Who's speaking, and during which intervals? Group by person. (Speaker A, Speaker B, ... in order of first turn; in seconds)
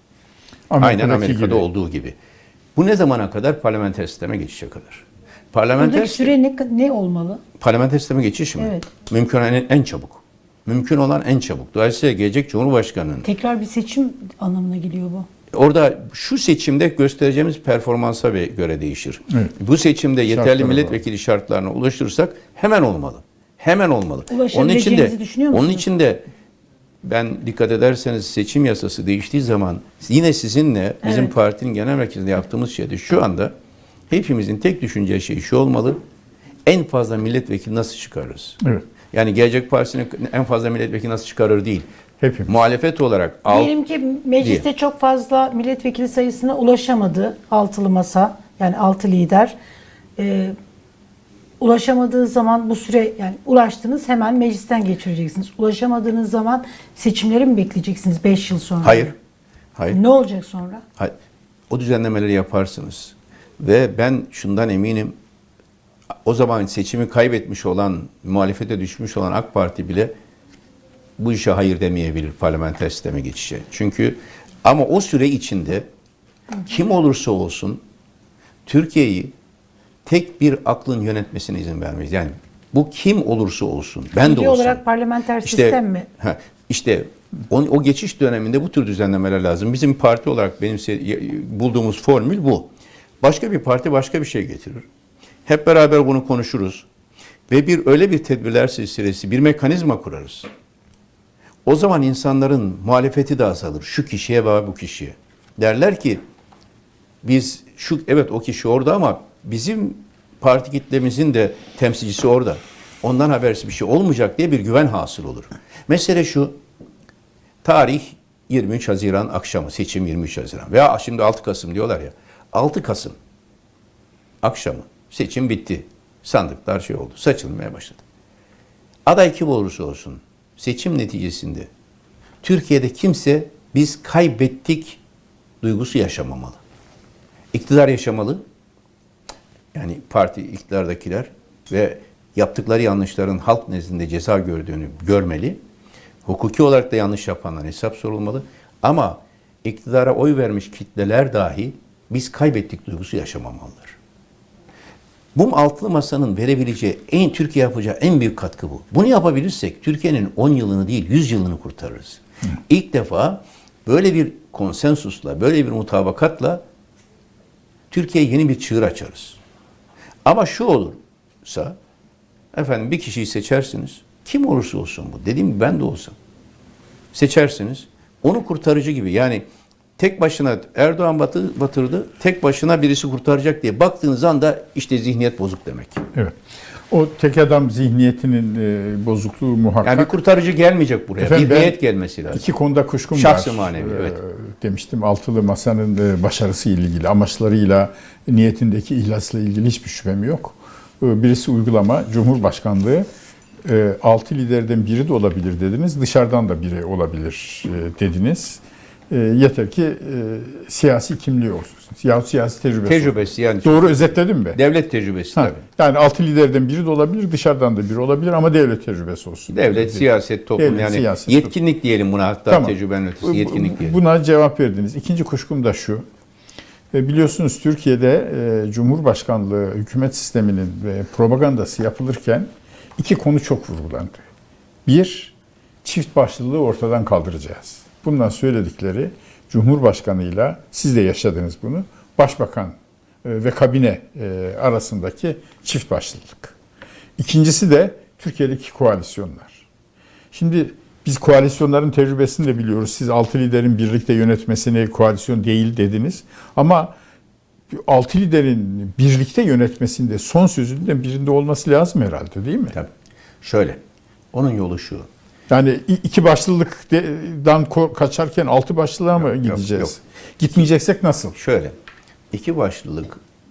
Speaker A: 0.7-1.6, 20.3-21.0, 42.2-42.5, 186.9-190.1, 191.2-191.8, 192.3-203.1, 203.6-214.6, 215.3-220.1, 220.6-221.5, 222.5-226.0, 226.9-234.2, 234.8-246.5, 247.2-249.7, 250.3-256.9, 257.7-262.8, 265.5-271.4
Speaker B: 0.8-2.1, 2.8-6.3, 7.6-13.3, 15.5-26.2, 27.0-33.5, 34.1-36.0, 36.6-41.9, 42.5-43.7, 44.4-44.6, 58.8-59.1, 61.7-65.2, 66.2-70.1, 71.2-75.8, 76.6-77.8, 78.7-79.3, 80.0-84.8, 85.4-92.7, 93.2-94.8, 95.5-96.8, 97.5-100.5, 101.6-106.2, 107.2-116.6, 117.6-123.2, 124.4-128.0, 129.1-131.7, 132.4-135.0, 135.6-136.6, 137.5-138.4, 139.7-145.6, 146.2-153.9, 155.3-166.6, 167.9-169.4, 170.2-171.8, 172.5-176.2, 177.1-179.4, 180.0-186.0, 189.8-192.4, 193.1-194.2, 212.8-215.6, 219.5-224.0, 263.4-263.8, 264.3-265.1, 269.2-269.9, 271.3-271.8, 272.3-273.2
Speaker C: 5.8-7.4, 8.6-8.9, 13.2-15.2, 24.3-25.8, 31.0-31.3, 43.5-49.5, 50.2-50.5, 51.6-59.1, 59.9-60.8, 84.2-86.1